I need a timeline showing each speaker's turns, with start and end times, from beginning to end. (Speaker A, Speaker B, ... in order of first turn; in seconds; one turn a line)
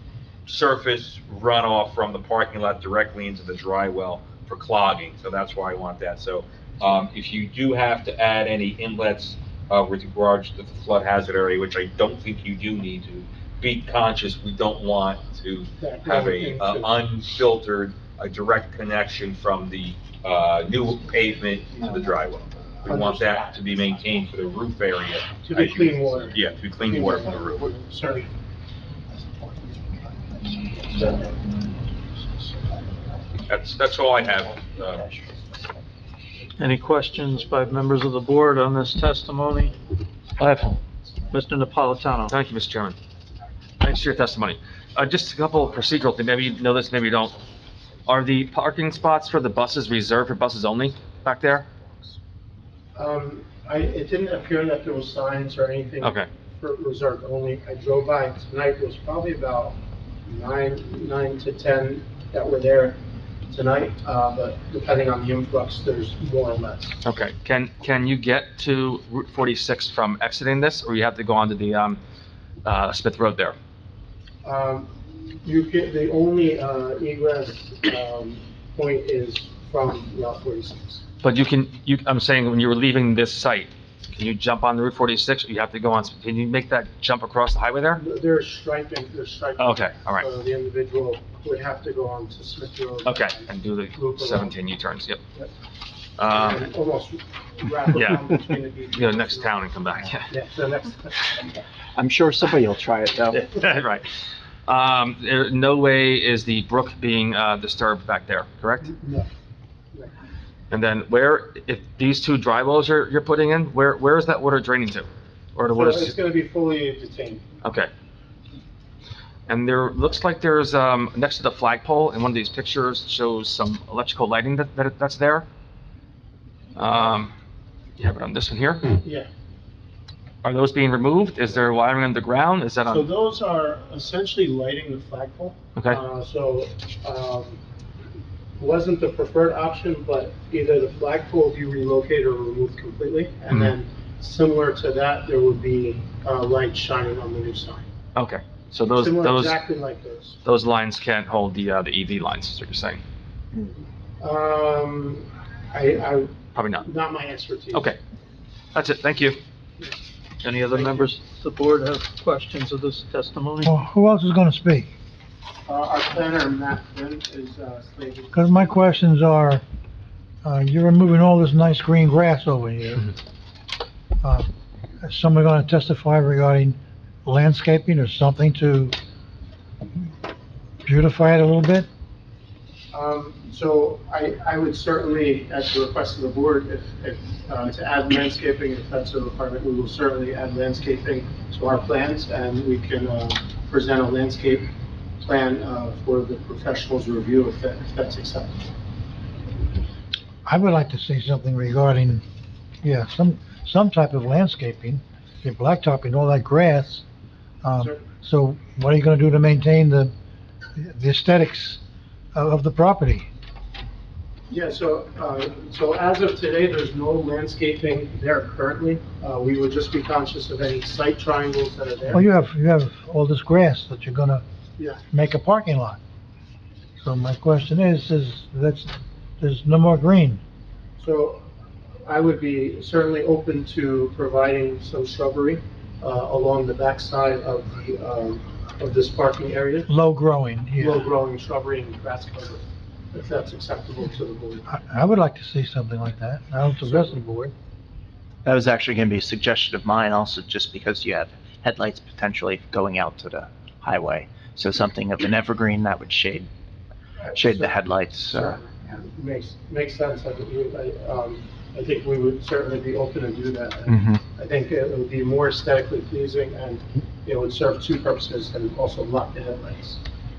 Speaker A: 0.5-27.6
Speaker B: 15.8-17.1
Speaker B: 22.9-23.4
Speaker B: 25.4-28.3
Speaker A: 33.5-35.1
Speaker C: 36.6-39.8
Speaker D: 40.4-40.8
Speaker C: 41.3-42.3
Speaker D: 42.3-43.0
Speaker D: 43.8-47.4
Speaker D: 48.1-51.7
Speaker B: 53.0-67.0
Speaker D: 56.0-56.3
Speaker D: 67.0-72.0
Speaker D: 72.6-73.5
Speaker B: 74.4-81.0
Speaker D: 81.2-88.0
Speaker B: 88.0-94.5
Speaker D: 89.6-90.3
Speaker D: 93.0-95.2
Speaker D: 96.2-96.7
Speaker B: 96.2-99.7
Speaker D: 98.9-100.3
Speaker B: 100.3-101.4
Speaker E: 102.0-103.7
Speaker D: 103.6-104.1
Speaker D: 104.7-108.9
Speaker B: 108.8-109.3
Speaker D: 110.7-116.2
Speaker B: 115.7-117.4
Speaker D: 117.6-117.9
Speaker D: 119.5-125.5
Speaker D: 126.8-127.3
Speaker D: 128.0-128.9
Speaker B: 129.0-129.3
Speaker D: 130.4-133.1
Speaker B: 132.9-137.6
Speaker D: 135.8-136.0
Speaker B: 138.6-147.8
Speaker D: 148.2-149.6
Speaker B: 148.9-150.4
Speaker D: 150.4-153.0
Speaker B: 154.2-157.9
Speaker D: 156.5-156.9
Speaker D: 157.7-158.0
Speaker D: 158.7-159.4
Speaker C: 160.4-163.7
Speaker B: 160.7-161.1
Speaker F: 163.6-164.9
Speaker B: 165.7-168.8
Speaker F: 168.3-169.6
Speaker F: 170.4-173.1
Speaker F: 174.2-174.5
Speaker F: 175.0-178.9
Speaker F: 180.8-181.9
Speaker B: 182.9-198.7
Speaker F: 200.4-202.2
Speaker F: 202.8-207.0
Speaker F: 207.6-210.1
Speaker F: 210.8-211.8
Speaker F: 212.3-213.3
Speaker B: 214.5-222.3
Speaker F: 222.1-224.4
Speaker F: 225.1-226.0
Speaker F: 227.0-230.4
Speaker B: 231.0-231.4
Speaker B: 232.1-239.9
Speaker F: 239.9-241.1
Speaker B: 240.8-244.7
Speaker F: 244.7-247.5
Speaker B: 246.9-247.1
Speaker E: 248.4-256.5
Speaker E: 257.3-258.6
Speaker B: 257.4-257.7
Speaker B: 258.3-270.0
Speaker E: 263.9-264.2